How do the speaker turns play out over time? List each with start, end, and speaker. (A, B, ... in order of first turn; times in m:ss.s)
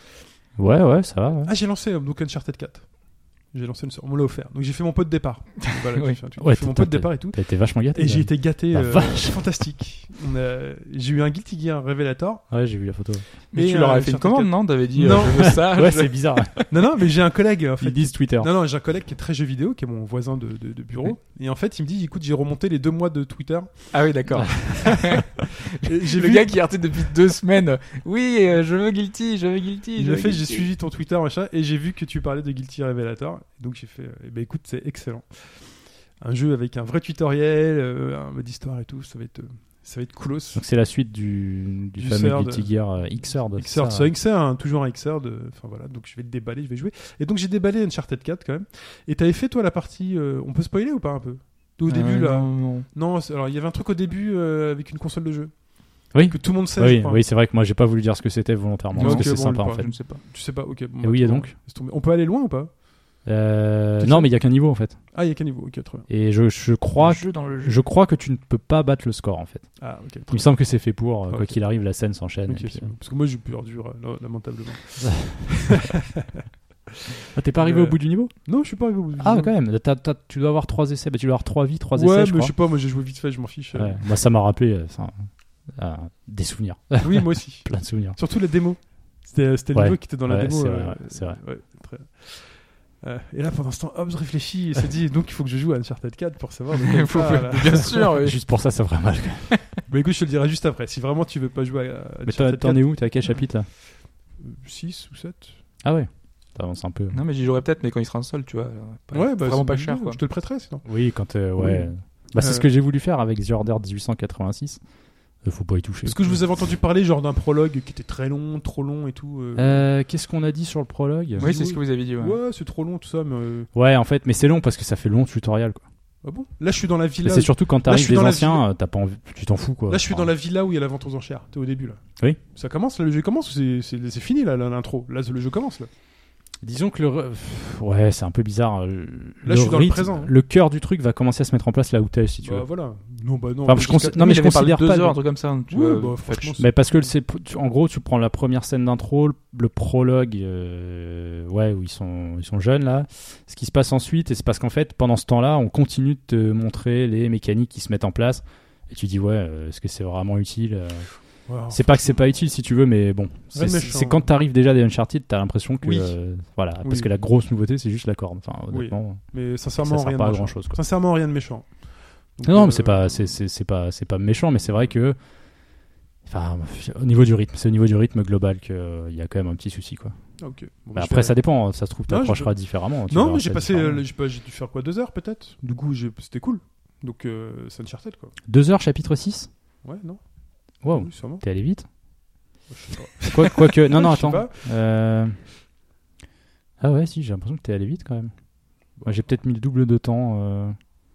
0:00.6-0:01.5 A
0:01.4-0:02.9 B
0:03.5-0:12.4 B
0:06.4-0:09.5 A
0:12.5-0:13.2 A
0:13.5-0:16.6 C
0:13.5-0:15.6 B
0:15.4-0:16.6 A
0:16.7-0:24.0 B
0:17.8-0:18.5 A
0:23.9-0:30.6 C
0:25.8-0:26.5 B
0:30.0-0:40.6 B
0:40.5-0:44.1 A
0:42.0-0:42.7 B
0:43.5-0:55.5 B
0:51.9-0:52.9 C
0:56.1-0:57.2 B
0:56.1-0:59.9 A
0:58.9-1:00.2 C
0:59.0-1:02.7 B
1:01.0-1:01.5 A
1:03.2-1:05.0 A
1:04.0-1:04.3 B
1:05.1-1:06.1 B
1:06.1-1:09.7 A
1:07.0-1:07.8 C
1:09.8-1:10.5 B
1:10.3-1:12.9 A
1:11.3-1:11.6 B
1:12.4-1:16.2 B
1:17.3-1:18.3 A
1:17.6-1:19.5 B
1:19.2-1:22.5 A
1:21.9-1:24.0 B
1:23.7-1:28.2 A
1:27.0-1:38.2 B
1:29.7-1:31.4 A
1:36.7-1:38.4 C
1:38.2-1:39.5 A
1:39.9-1:42.9 B
1:42.2-1:43.7 A
1:44.4-1:45.5 B
1:45.8-1:47.2 A
1:47.1-1:50.2 C
1:49.1-1:50.8 B
1:50.8-1:54.8 A
1:51.5-1:52.7 B
1:55.4-1:56.4 A
1:56.0-1:59.8 B
1:59.6-2:01.5 A
2:01.3-2:03.7 B
2:01.4-2:02.4 C
2:03.7-2:05.8 A
2:06.2-2:08.6 B
2:07.2-2:10.3 A
2:09.9-2:12.0 B
2:12.5-2:15.9 B
2:16.6-2:22.6 A
2:19.4-2:20.3 B
2:22.4-2:24.2 B
2:23.6-2:25.2 A
2:24.0-2:26.6 C
2:25.7-2:27.1 B
2:26.6-2:41.1 A
2:41.5-2:42.2 B
2:41.7-2:49.2 A
2:43.5-2:44.2 B
2:45.8-2:46.2 B
2:46.8-2:47.2 B
2:48.7-2:51.7 B
2:49.8-2:50.8 A
2:52.4-2:53.3 B
2:52.4-2:55.2 A
2:56.2-3:00.1 A
3:00.4-3:01.4 B
3:00.9-3:04.0 A
3:02.1-3:08.3 B
3:08.5-3:09.5 A
3:09.8-3:10.2 B
3:10.8-3:11.9 A
3:10.9-3:11.4 B
3:12.7-3:14.7 B
3:13.3-3:15.4 A
3:16.8-3:18.3 A
3:19.0-3:20.8 A